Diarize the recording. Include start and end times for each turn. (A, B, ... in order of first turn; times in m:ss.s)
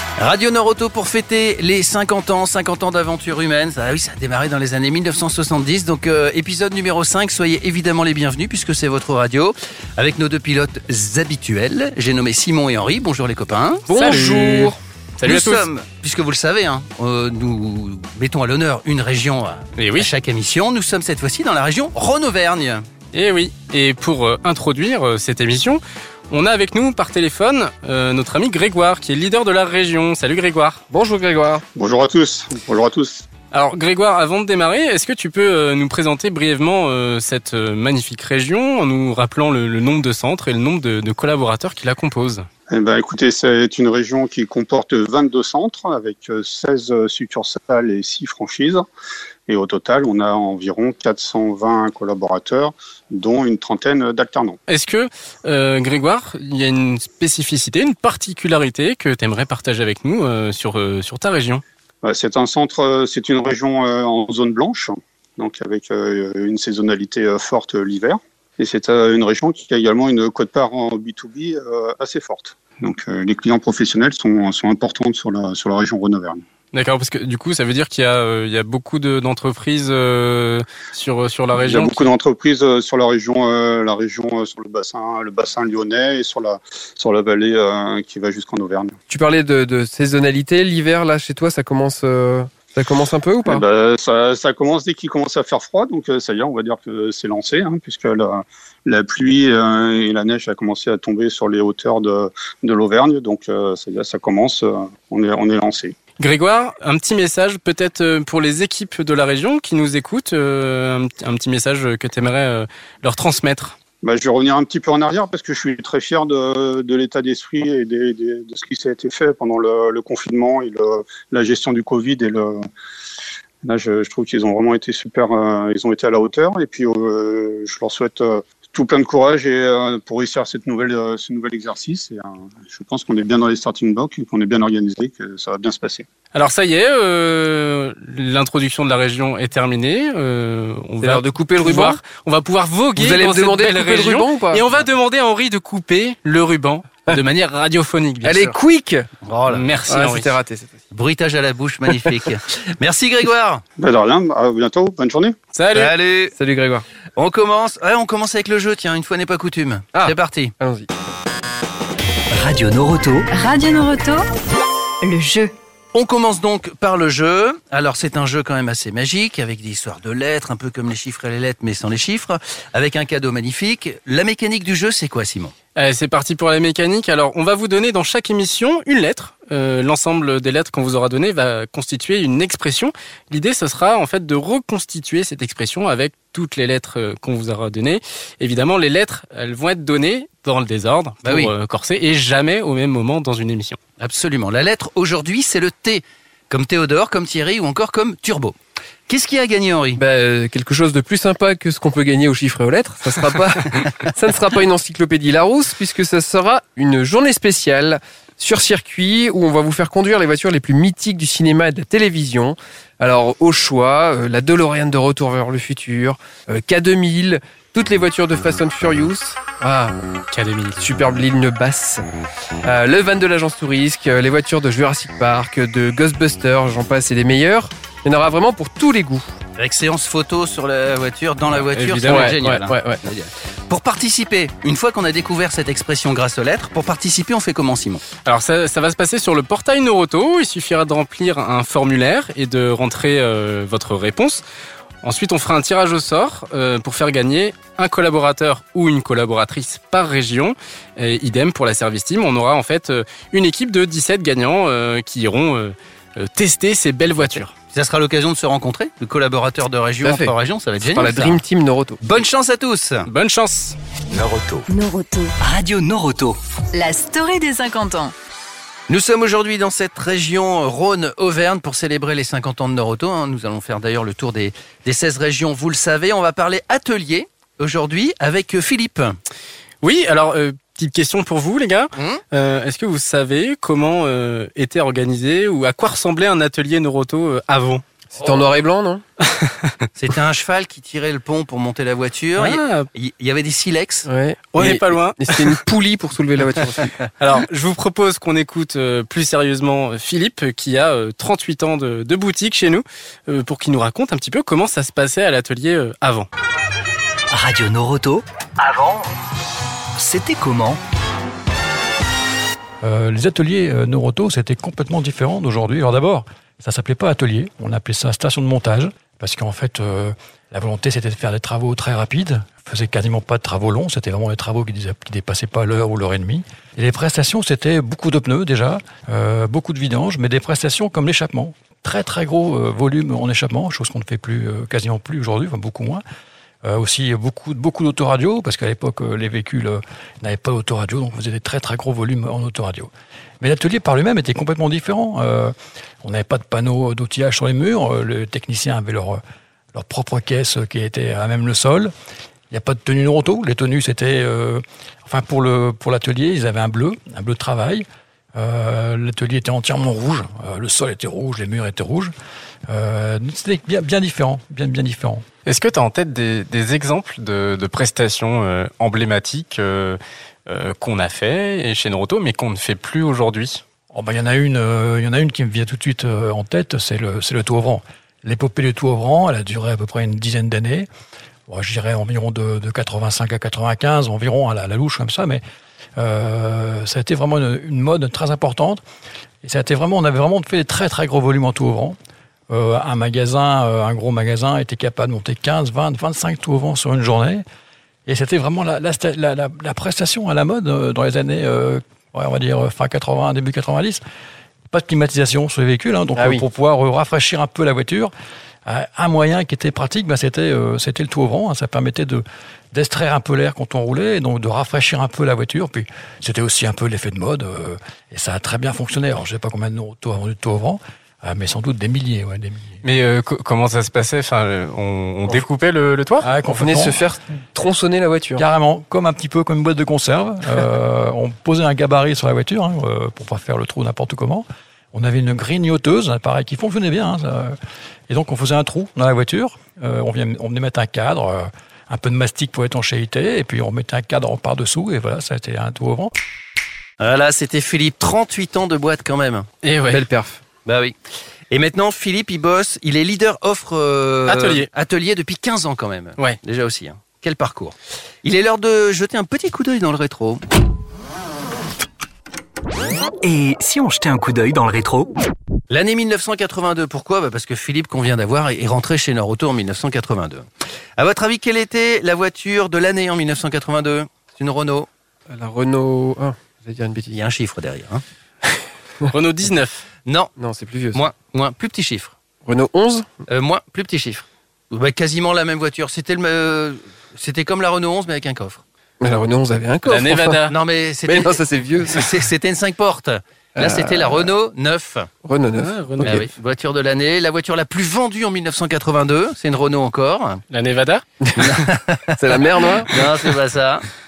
0:00.2-0:13.9 A
0:13.9-0:14.8 B
0:13.9-0:15.7 C
0:15.2-0:22.9 A
0:19.8-0:20.1 C
0:23.1-0:30.8 C
0:30.9-0:31.6 B
0:31.8-0:33.2 D
0:33.5-0:42.5 C
0:42.7-0:48.8 D
0:49.5-0:54.6 D
0:54.7-1:01.6 C
1:02.0-1:16.4 D
1:16.7-1:22.1 C
1:21.5-1:28.9 D
1:29.1-1:33.6 B
1:33.4-1:45.9 D
1:46.2-1:53.8 C
1:54.0-2:02.6 D
2:03.6-2:16.0 D
2:16.3-2:28.5 C
2:21.0-2:22.0 B
2:23.0-2:24.8 B
2:28.2-2:29.0 B
2:29.2-2:29.7 A
2:29.5-2:30.3 C
2:29.9-2:30.8 B
2:30.9-2:33.6 A
2:31.9-2:32.2 B
2:33.8-2:35.3 D
2:35.5-2:35.9 C
2:35.7-2:36.3 A
2:36.3-2:36.8 B
2:37.2-2:40.5 A
2:39.9-2:40.9 B
2:42.3-2:43.3 E
2:43.3-2:44.2 F
2:45.0-2:45.5 F
2:45.9-2:55.5 A
2:55.8-3:13.8 C
3:11.2-3:11.5 A
3:14.0-3:18.6 A
3:19.1-3:20.0 A
3:20.0-3:40.0 B
3:40.3-3:40.8 C
3:40.8-3:42.0 B
3:42.6-3:49.4 B
3:49.6-3:58.0 A
3:51.6-3:52.5 C
3:52.0-3:53.0 B
3:58.2-4:04.4 C
4:05.0-4:17.5 C
4:17.7-4:21.4 A
4:20.0-4:22.0 B
4:22.0-4:23.1 A
4:23.0-4:23.8 C
4:24.1-4:24.7 E
4:24.7-4:25.3 F
4:25.4-4:26.4 E
4:26.7-4:28.1 F
4:28.9-4:39.2 A
4:39.8-4:47.8 C
4:41.9-4:42.2 A
4:48.2-4:49.0 B
4:48.2-4:48.5 A
4:49.4-4:49.7 C
4:49.9-4:54.1 A
4:52.4-4:52.9 C
4:54.0-4:57.0 B
4:54.5-4:55.5 C
4:57.2-5:06.3 C
5:07.3-5:09.0 E
5:10.0-5:10.8 E
5:12.8-5:36.0 G
5:36.6-5:49.2 G
5:49.7-5:51.9 G
5:52.5-6:02.1 G
6:02.7-6:05.2 G
6:05.4-6:13.6 C
6:13.9-6:20.9 G
6:21.5-6:25.4 G
6:26.0-6:28.8 G
6:29.4-6:32.0 G
6:32.5-6:37.4 G
6:38.0-6:44.0 G
6:44.7-6:48.1 G
6:46.2-6:46.4 B
6:48.6-7:02.8 G
7:02.8-7:06.2 C
7:06.2-7:07.1 G
7:06.4-7:08.4 B
7:08.4-7:17.6 G
7:18.1-7:26.1 G
7:27.0-7:29.5 A
7:29.6-7:30.0 C
7:29.9-7:30.4 B
7:30.6-7:31.0 A
7:31.5-7:40.4 A
7:34.3-7:34.7 C
7:43.2-7:45.1 E
7:45.7-7:50.4 A
7:51.0-7:54.9 A
7:55.3-7:57.2 B
7:57.1-7:58.0 A
7:59.1-7:59.8 C
8:00.0-8:00.3 A
8:00.4-8:01.0 B
8:00.9-8:02.1 A
8:02.4-8:03.1 B
8:03.3-8:08.6 A
8:09.0-8:10.4 B
8:09.9-8:10.6 C
8:10.5-8:15.1 A
8:11.0-8:12.2 B
8:13.6-8:14.3 B
8:15.2-8:16.3 B
8:15.5-8:16.2 C
8:16.0-8:20.4 A
8:20.5-8:21.5 C
8:21.2-8:21.5 B
8:21.4-8:22.2 A
8:22.2-8:23.0 B
8:22.9-8:23.8 A